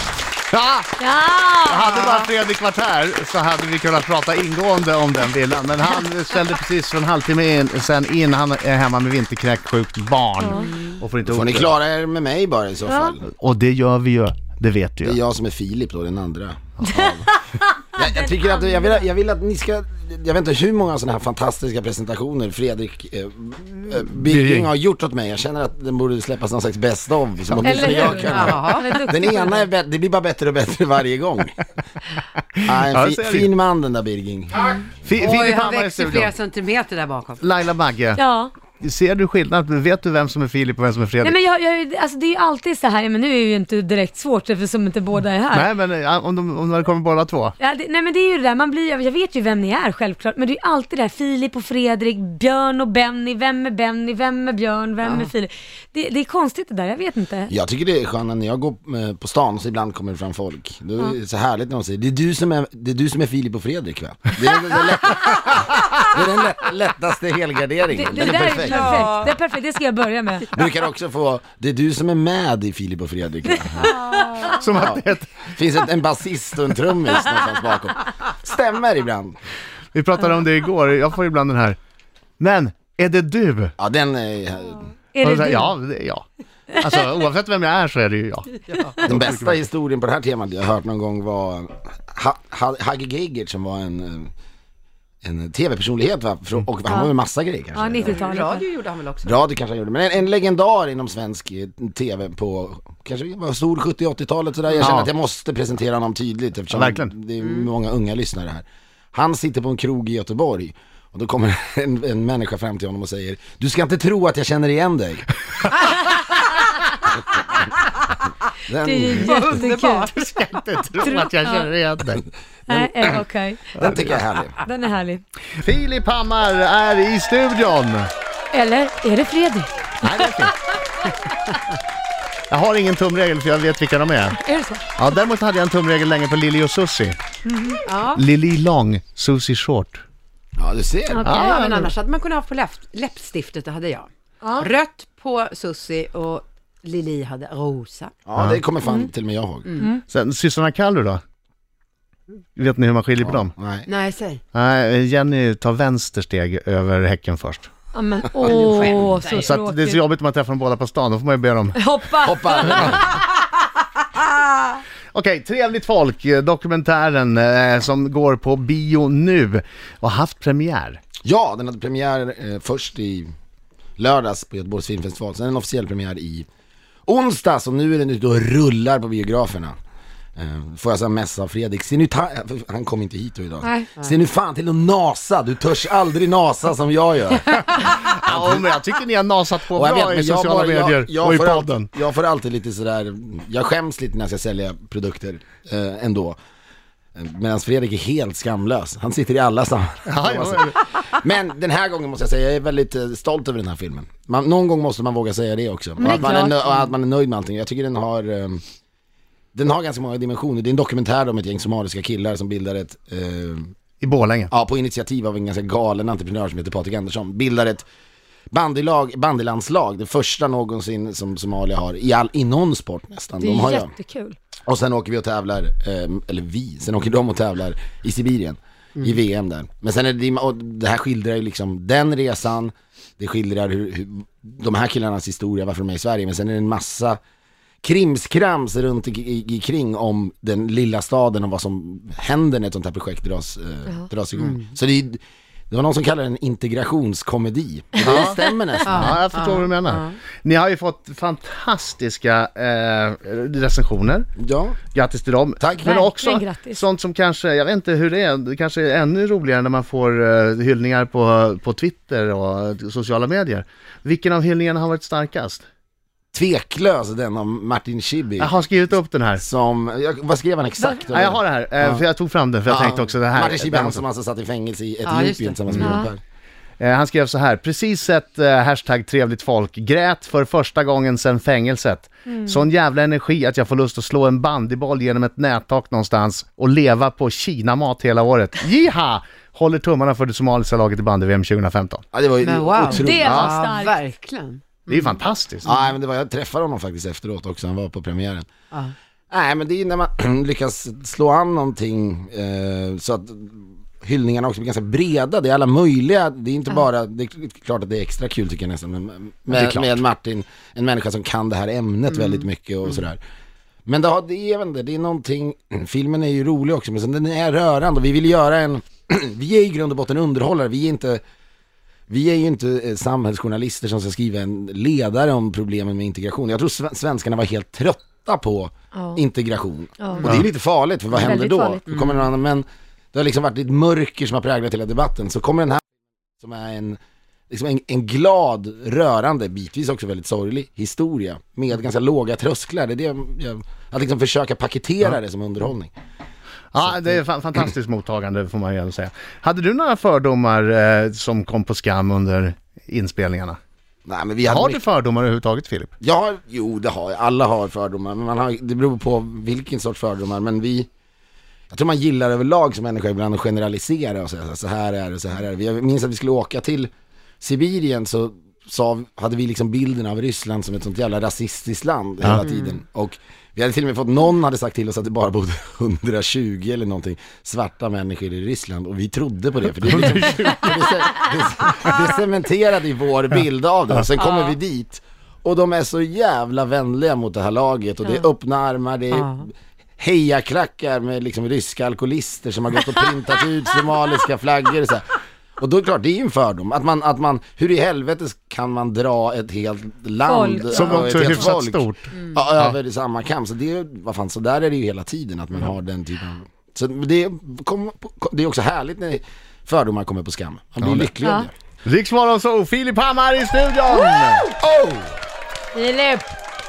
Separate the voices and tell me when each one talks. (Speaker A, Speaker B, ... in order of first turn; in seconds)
Speaker A: 0.5-0.9, 1.6-11.7, 13.3-15.2, 24.2-24.7, 32.6-33.5, 35.0-36.4, 37.4-38.2, 38.8-41.4, 45.5-47.5, 74.4-75.5, 79.9-81.8, 82.4-83.7, 85.2-89.5, 104.8-105.1, 106.7-107.1, 120.0-122.2, 123.8-124.1, 125.6-128.1, 130.0-130.6, 132.5-134.4, 134.9-137.2, 138.1-140.0, 141.2-141.9, 148.3-148.6, 150.0-151.2, 152.6-153.6, 154.5-157.7, 159.4-161.8, 165.1-171.0, 187.8-191.9, 200.1-200.8, 214.0-214.5, 248.0-254.3, 254.8-265.6, 268.4-269.4, 270.8-274.0, 275.6-276.0, 276.8-292.0, 293.2-293.6, 294.9-295.7, 309.5-309.9, 346.7-353.6, 354.5-355.9, 379.9-380.9, 400.7-402.0, 410.8-411.1, 411.8-414.4
Speaker B: 1.0-2.0, 10.4-10.7, 12.9-13.1, 17.9-18.9, 27.6-29.6, 38.1-38.5, 41.2-45.7, 47.6-57.5, 67.9-70.5, 73.8-74.3, 85.1-85.7, 97.7-98.7, 118.8-120.1, 121.0-121.5, 122.7-123.7, 124.6-125.2, 128.5-130.3, 134.4-134.9, 137.5-137.8, 141.2-141.6, 144.4-144.7, 157.9-160.0, 161.7-163.0, 206.0-206.6, 223.4-224.3, 255.8-256.8, 275.8-276.1, 282.3-282.6, 292.9-294.0, 328.9-329.2, 330.0-330.4, 331.1-331.8, 400.3-401.1, 415.7-416.3
Speaker C: 11.2-13.3, 15.0-17.3, 17.9-31.6, 32.6-34.8, 57.5-69.2, 70.5-74.0, 74.8-79.4, 83.8-84.9, 89.0-94.3, 95.2-98.2, 99.2-115.3, 118.7-119.4, 122.7-123.0, 123.8-124.6, 140.6-141.4, 148.2-149.7, 153.2-153.8, 162.2-163.0, 171.2-173.3, 174.0-176.4, 177.1-179.8, 180.3-188.7, 189.7-196.4, 197.2-208.6, 209.5-213.7, 214.5-217.8, 218.5-223.9, 224.7-237.2, 237.8-249.2, 254.4-254.8, 255.6-256.0, 266.3-268.5, 269.4-272.0, 272.7-276.2, 292.1-293.5, 295.6-298.5, 299.3-313.2, 313.9-321.2, 322.1-335.8, 336.4-337.0, 337.5-345.9, 346.8-347.1, 354.0-354.8, 356.0-360.9, 361.7-366.9, 367.4-411.5, 413.9-415.1
Speaker D: 27.6-28.9, 34.7-37.4, 68.7-69.3, 88.7-89.0, 98.0-99.4, 119.2-120.2, 137.8-138.2, 141.3-148.2, 153.8-154.4, 158.4-159.5, 183.6-184.1, 248.9-250.2, 275.0-275.6, 292.4-295.8, 331.9-332.2, 372.4-372.7, 384.2-384.5, 389.1-389.4